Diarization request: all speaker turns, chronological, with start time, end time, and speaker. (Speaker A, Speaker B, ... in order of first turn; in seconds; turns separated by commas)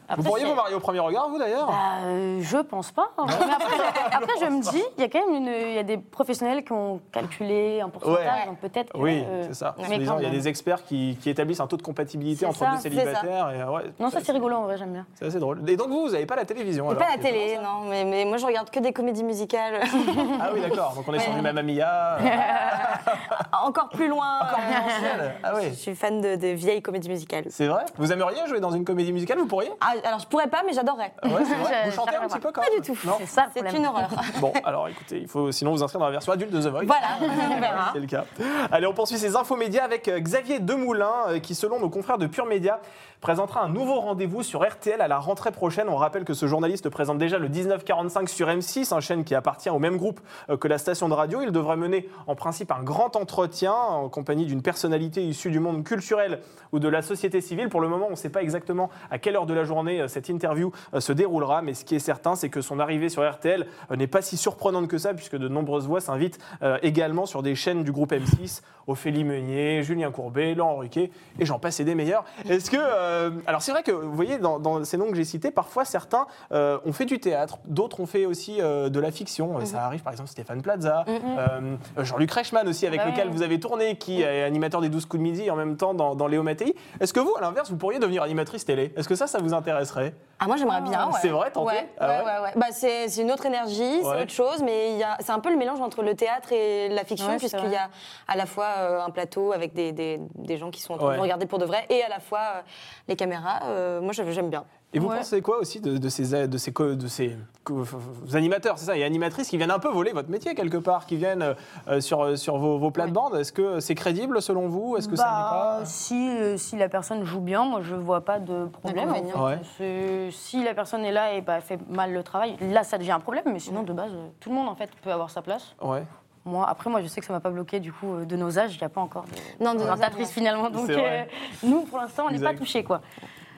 Speaker A: 0.1-0.6, Speaker B: 0.1-1.8, Speaker A: 1.6-10.4, Speaker B: 3.3-4.7, Speaker B: 8.0-8.4, Speaker B: 8.9-14.4, Speaker C: 9.8-10.4, Speaker A: 12.4-12.9, Speaker C: 12.8-13.3, Speaker A: 14.0-15.1, Speaker B: 15.2-17.7, Speaker C: 16.9-21.6, Speaker B: 20.3-23.4, Speaker A: 22.2-23.1, Speaker C: 22.3-27.6, Speaker B: 24.4-25.8, Speaker A: 24.5-25.2, Speaker B: 27.5-29.8, Speaker C: 29.8-31.8, Speaker B: 31.3-33.2, Speaker A: 31.3-32.5, Speaker C: 32.6-34.6, Speaker A: 33.0-34.3, Speaker B: 34.4-90.2, Speaker C: 36.8-38.0, Speaker A: 37.4-37.8, Speaker C: 81.1-81.4, Speaker A: 83.0-83.3, Speaker C: 90.4-104.7, Speaker A: 90.7-91.1, Speaker B: 91.0-92.3, Speaker B: 94.0-94.3, Speaker A: 97.2-97.8, Speaker B: 101.0-101.3, Speaker B: 104.9-115.9, Speaker A: 105.0-105.3, Speaker A: 115.0-125.7, Speaker C: 118.8-119.5, Speaker B: 119.3-119.6, Speaker B: 125.8-126.1, Speaker A: 126.5-133.0, Speaker C: 129.6-130.3, Speaker B: 130.7-131.3, Speaker B: 132.3-132.6